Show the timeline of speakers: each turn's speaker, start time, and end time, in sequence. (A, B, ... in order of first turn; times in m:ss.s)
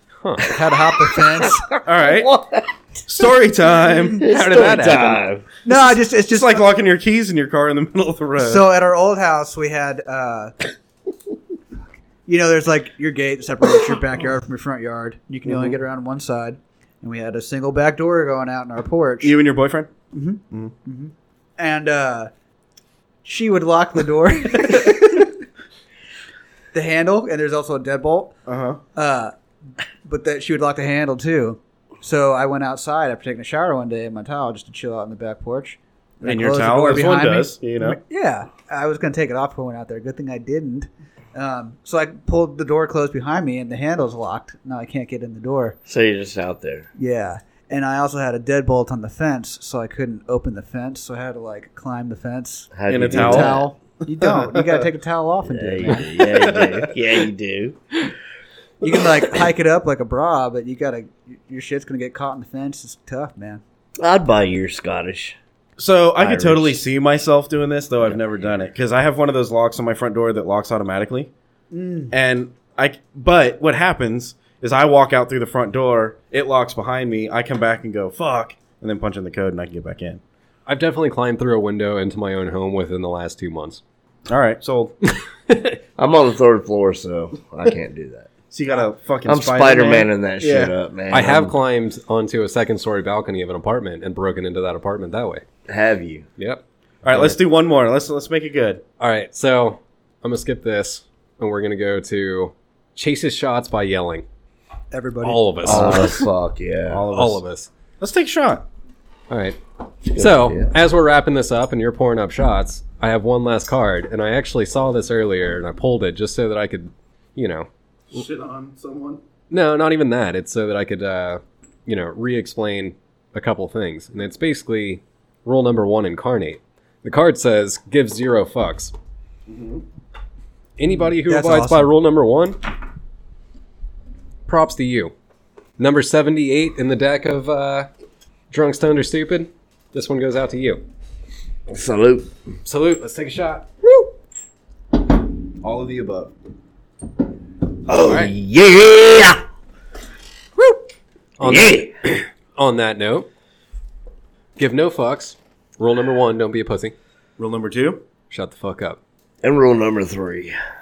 0:00.2-0:00.6 A
0:00.4-0:01.8 B
0:01.8-0:02.3 C
0:01.9-0:02.7 D
0:03.1-0:04.3 C
0:04.2-0:05.5 D
0:04.2-0:05.2 A
0:05.6-0:06.6 B
0:06.3-0:08.7 C
0:08.4-0:10.6 B
0:12.3-0:19.4 B
0:19.2-0:19.9 C
0:20.1-0:22.3 B
0:23.2-0:25.3 B
0:26.7-0:28.3 B
0:28.5-0:28.8 C
0:29.0-0:29.3 B
0:30.0-0:45.8 B
0:36.2-0:38.0 C
0:45.9-0:46.9 D
0:47.0-0:56.1 B
0:52.7-0:53.7 D
0:52.9-0:54.8 C
0:55.5-0:57.8 D
0:55.8-0:56.9 C
0:58.8-1:03.6 B
1:04.0-1:05.4 D
1:05.8-1:11.3 C
1:06.2-1:06.8 D
1:11.7-1:12.1 B
1:12.1-1:20.2 C
1:20.7-1:23.8 A
1:24.3-1:24.9 C
1:25.5-1:25.8 A
1:26.0-1:28.3 D
1:28.5-1:30.7 C
1:29.3-1:31.6 D
1:31.1-1:35.4 A
1:35.7-1:36.3 D
1:36.4-1:37.4 A
1:37.0-1:38.8 C
1:39.0-1:44.2 A
1:44.9-1:45.7 B
1:45.2-1:46.2 A
1:45.6-1:47.0 D
1:45.7-1:46.1 C
1:46.9-1:47.4 C
1:47.1-1:47.7 A
1:48.0-1:48.7 C
1:49.3-1:49.6 A
1:50.1-1:50.8 D
1:50.1-1:57.7 A
1:58.1-1:59.2 C
1:59.5-2:08.9 A
2:09.5-2:09.8 C
2:10.8-2:12.6 A
2:11.2-2:11.9 B
2:14.5-2:15.1 A
2:15.8-2:17.9 A
2:18.5-2:20.8 A
2:21.7-2:22.3 D
2:22.6-2:23.7 A
2:25.6-2:26.3 C
2:27.9-2:29.4 D
2:31.4-2:31.9 A
2:31.4-2:31.9 D
2:32.6-2:33.3 A
2:34.6-2:37.0 A
2:37.4-2:38.0 C
2:38.3-2:39.0 A
2:39.4-2:40.5 D